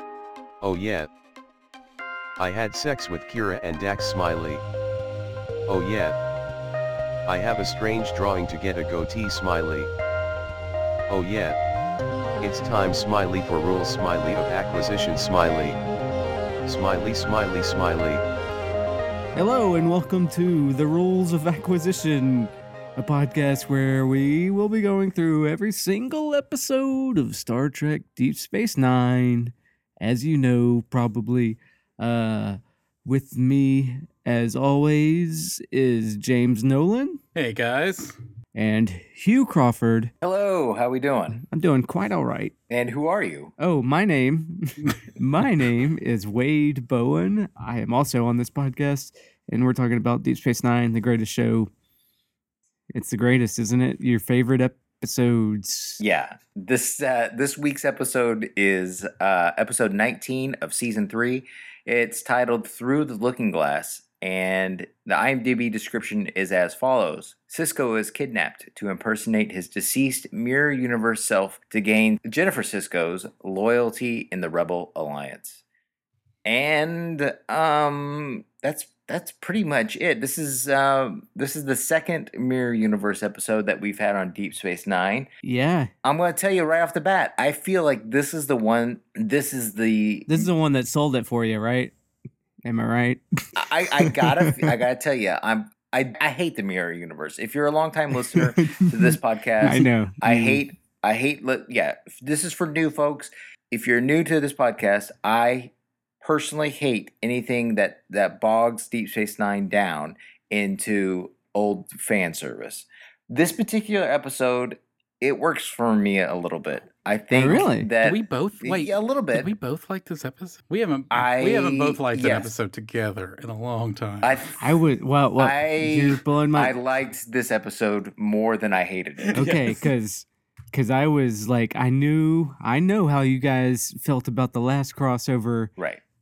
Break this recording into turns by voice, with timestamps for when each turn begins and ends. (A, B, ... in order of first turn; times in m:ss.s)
0:00.6-0:01.1 A
0:02.4-0:04.6 A
0:05.7-0:06.2 A
0:07.2-0:09.9 A
0:11.1-0:11.6 A
0:12.4-0:15.8 A
0:16.6-0:18.2 A
0:19.3-0:37.2 B
0:37.3-0:38.2 C
0:38.5-0:40.1 B
0:40.2-0:41.4 D
0:41.3-0:42.5 B
0:42.7-0:43.5 D
0:43.6-0:51.7 B
0:52.9-0:56.0 B
0:56.0-1:15.6 D
1:16.4-1:25.3 D
1:25.4-1:25.9 B
1:26.0-1:30.5 D
1:30.3-1:31.9 B
1:32.6-1:34.7 B
1:33.6-1:45.7 D
1:38.1-1:40.6 B
1:46.2-1:59.5 D
1:57.3-1:57.9 B
1:58.0-2:04.3 C
2:01.1-2:02.5 D
2:04.2-2:04.6 D
2:04.6-2:06.7 B
2:05.4-2:09.5 D
2:09.2-2:09.9 C
2:09.3-2:15.7 B